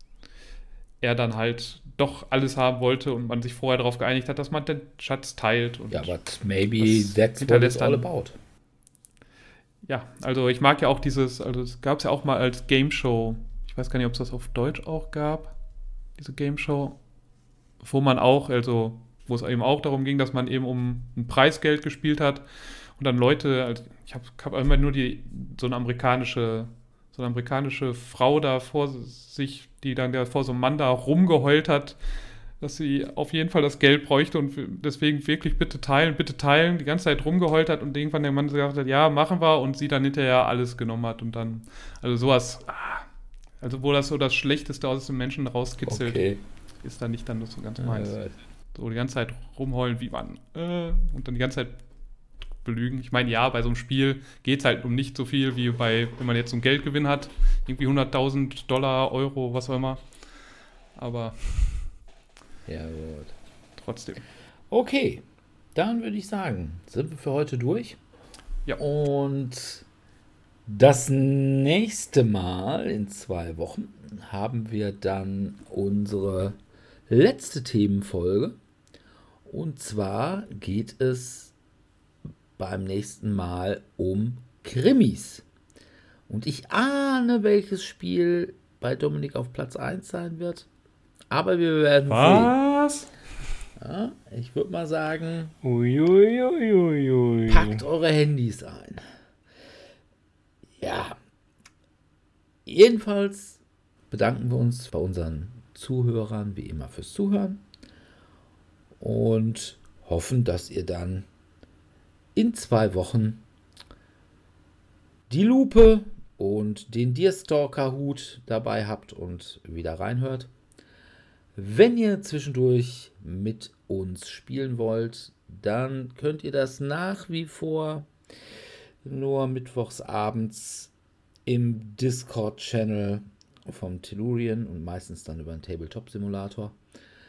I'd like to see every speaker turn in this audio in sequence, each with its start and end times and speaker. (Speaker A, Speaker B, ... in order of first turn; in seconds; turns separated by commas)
Speaker A: 1.0-6.1, Speaker B: 5.9-8.4, Speaker A: 6.8-8.1, Speaker A: 9.8-15.6, Speaker A: 16.2-17.0, Speaker A: 17.8-32.0, Speaker A: 32.6-43.1, Speaker A: 43.6-46.2, Speaker B: 45.9-46.4, Speaker A: 46.8-48.2, Speaker B: 47.8-48.3, Speaker A: 48.7-51.8, Speaker A: 52.6-60.0, Speaker A: 61.0-61.9, Speaker B: 62.7-63.4, Speaker A: 63.8-64.3, Speaker B: 64.7-65.2, Speaker B: 65.8-68.0, Speaker B: 68.8-69.9, Speaker B: 70.7-76.6, Speaker B: 77.1-78.6, Speaker B: 79.5-81.5, Speaker B: 82.6-85.5, Speaker B: 86.3-90.7, Speaker B: 91.3-92.6, Speaker A: 92.1-93.1, Speaker B: 93.8-95.5, Speaker C: 95.6-97.8, Speaker B: 97.5-99.0, Speaker B: 100.8-101.2, Speaker B: 102.7-107.7, Speaker B: 109.0-111.3, Speaker B: 112.3-113.5, Speaker B: 115.3-120.5, Speaker B: 121.6-128.1, Speaker B: 129.0-130.9, Speaker B: 131.5-136.8